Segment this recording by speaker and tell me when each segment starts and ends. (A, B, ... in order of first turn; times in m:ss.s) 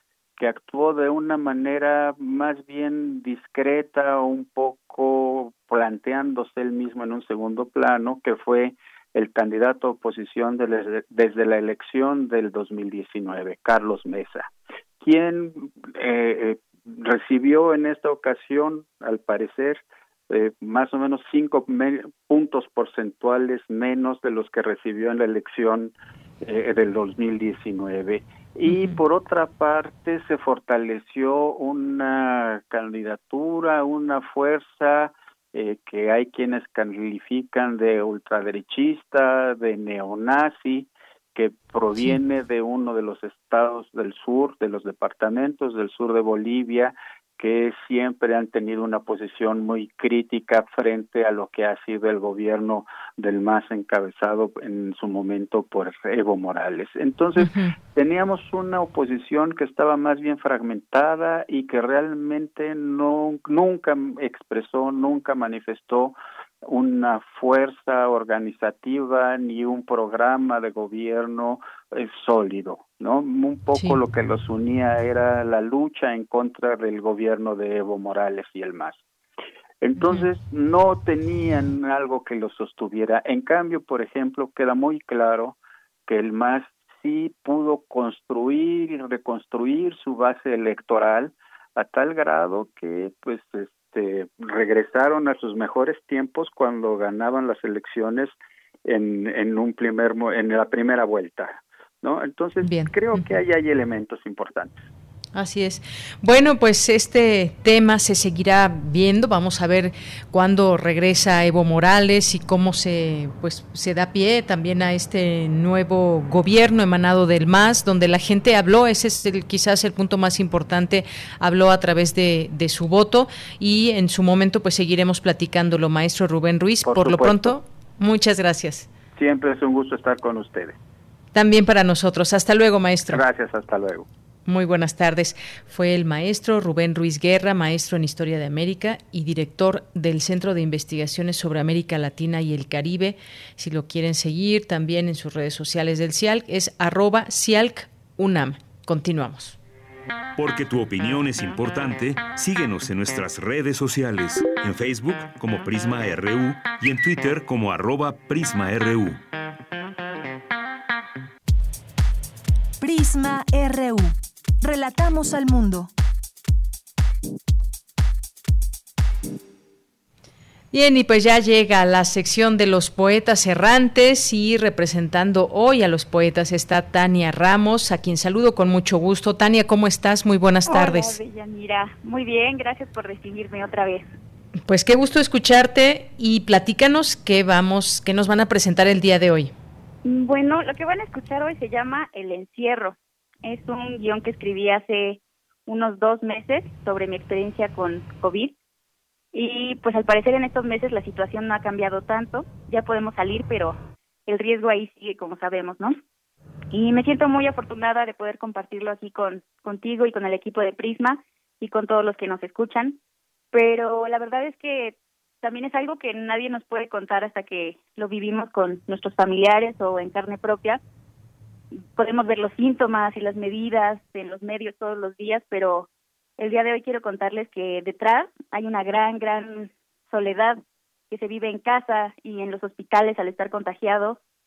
0:00.4-1:19.0 A
0:28.7-0:29.0 B
0:57.4-0:57.7 B
1:19.8-1:38.4 A
1:38.9-1:44.7 A
1:42.6-1:43.2 B
1:45.4-2:08.9 B
2:06.8-2:07.6 A
2:09.2-2:10.8 A
2:11.3-2:13.2 B
2:13.1-2:14.1 A
2:14.5-2:29.6 B
2:30.4-2:39.2 C
2:42.8-2:45.9 D
2:50.7-3:01.2 B
3:00.7-3:04.1 E
3:04.7-3:09.5 B
3:10.0-3:18.6 E
3:19.3-3:26.0 E
3:26.7-3:33.0 E
3:33.5-3:40.8 E
3:41.8-3:54.2 E